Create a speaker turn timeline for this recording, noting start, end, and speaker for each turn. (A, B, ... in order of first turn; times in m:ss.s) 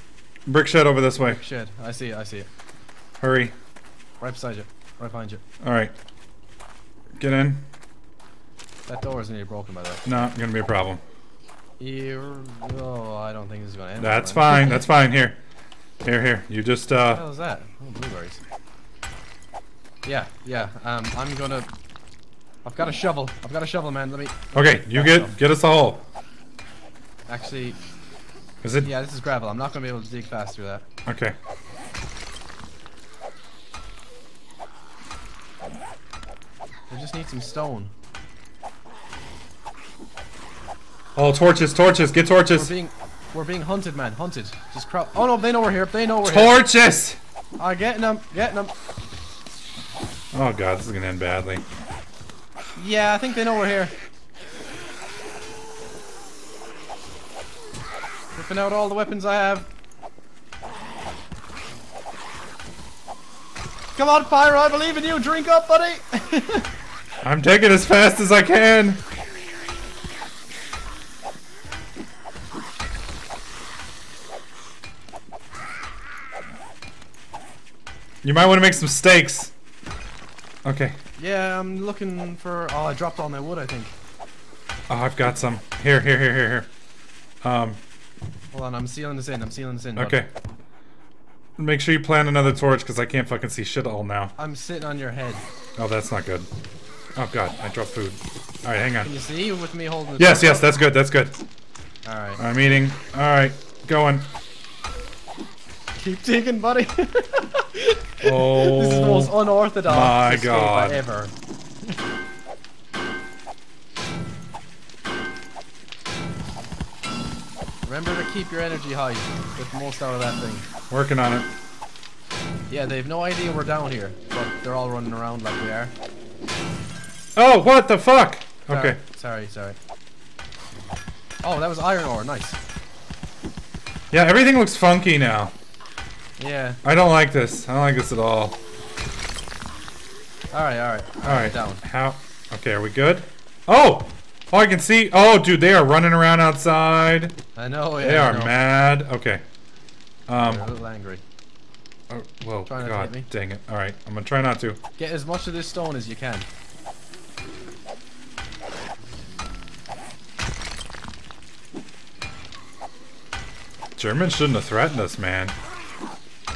0:00.4-0:01.4 A
0:01.2-0:02.5 B
0:03.2-0:03.5 A
0:04.2-0:05.4 B
0:05.6-0:05.9 A
0:07.2-0:07.6 A
0:08.9-0:10.0 B
0:10.0-0:11.0 A
0:11.8-0:14.9 B
0:14.0-0:15.4 A
0:16.0-0:17.2 A
0:17.1-0:18.4 B
0:20.0-0:21.7 B
0:22.6-0:25.3 B
0:24.5-0:26.0 A
0:27.3-0:27.8 B
0:28.6-0:28.9 A
0:28.8-0:30.8 B
0:31.0-0:31.3 A
0:36.9-0:37.9 B
0:41.2-0:42.7 A
0:42.5-0:46.6 B
0:46.2-0:47.2 A
0:47.6-0:48.7 B
0:50.3-0:51.6 A
0:52.8-0:53.9 B
0:58.3-0:59.7 B
1:04.0-1:06.7 B
1:07.2-1:09.0 A
1:18.2-1:19.5 A
1:20.6-1:21.0 A
1:21.2-1:24.0 B
1:24.9-1:26.7 A
1:27.4-1:27.8 A
1:28.5-1:30.2 B
1:30.0-1:30.3 A
1:31.6-1:34.3 A
1:34.4-1:35.4 B
1:35.8-1:36.5 A
1:37.2-1:39.1 A
1:39.0-1:40.7 B
1:40.2-1:41.4 A
1:42.0-1:42.4 B
1:42.4-1:44.2 A
1:46.0-1:51.3 B
1:48.2-1:51.0 A
1:57.8-2:00.7 B
2:00.9-2:01.5 A
2:02.7-2:05.9 B
2:07.4-2:09.0 A
2:08.7-2:09.8 B
2:11.4-2:12.6 B
2:14.1-2:15.5 A
2:16.4-2:16.8 B
2:16.8-2:18.6 A
2:20.5-2:21.8 B
2:21.2-2:27.4 A
2:27.5-2:28.6 B
2:28.0-2:29.4 A
2:30.3-2:30.7 A
2:30.4-2:31.2 B
2:32.1-2:34.8 A
2:32.6-2:33.3 B
2:35.0-2:36.5 B
2:44.0-2:45.5 A